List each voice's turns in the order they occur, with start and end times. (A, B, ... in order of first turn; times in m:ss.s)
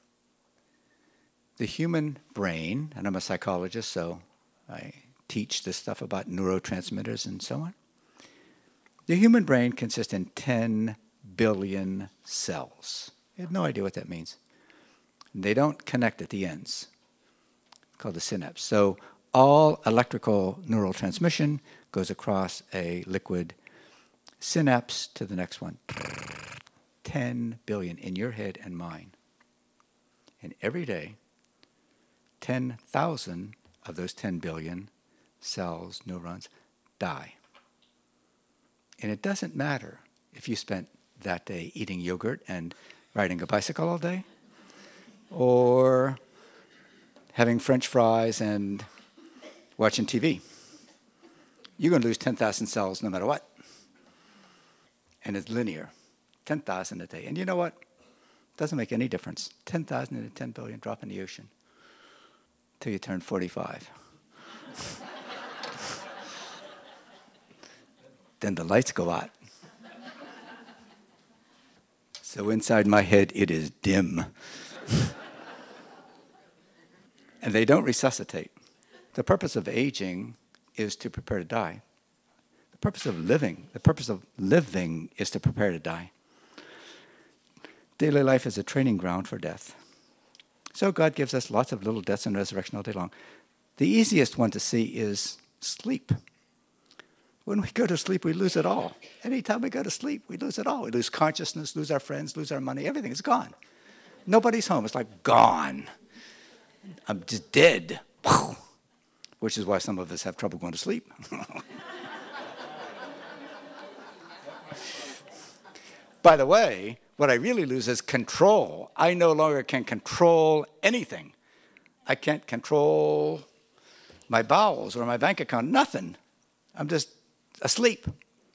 0:01.6-0:07.7 A
0:09.1-0:14.4 A
0:15.3-0:16.9 A
0:18.0-0:23.6 A
0:24.4-0:26.1 A
0:27.0-0:29.1 A
0:30.4-0:31.2 A
0:32.4-0:34.9 A
0:35.4-0:37.4 A
0:39.0-0:44.2 A
0:45.3-0:46.2 A
0:47.3-0:48.9 A
0:49.8-0:50.4 A
0:51.8-0:53.4 A
0:55.2-0:55.9 A
0:56.4-0:57.8 A
0:58.6-1:01.5 A
1:02.8-1:03.9 A
1:08.4-1:09.3 A
1:12.2-1:15.1 A
1:17.4-1:18.5 A
1:19.1-1:21.8 A
1:22.7-1:26.1 A
1:28.0-1:29.8 A
1:30.7-1:33.1 A
1:33.8-1:36.1 A
1:37.4-1:43.5 A
1:44.2-1:45.9 A
1:47.1-1:48.6 A
1:49.4-1:51.6 A
1:56.2-2:01.3 A
2:02.1-2:03.4 A
2:04.3-2:06.2 A
2:06.7-2:08.1 A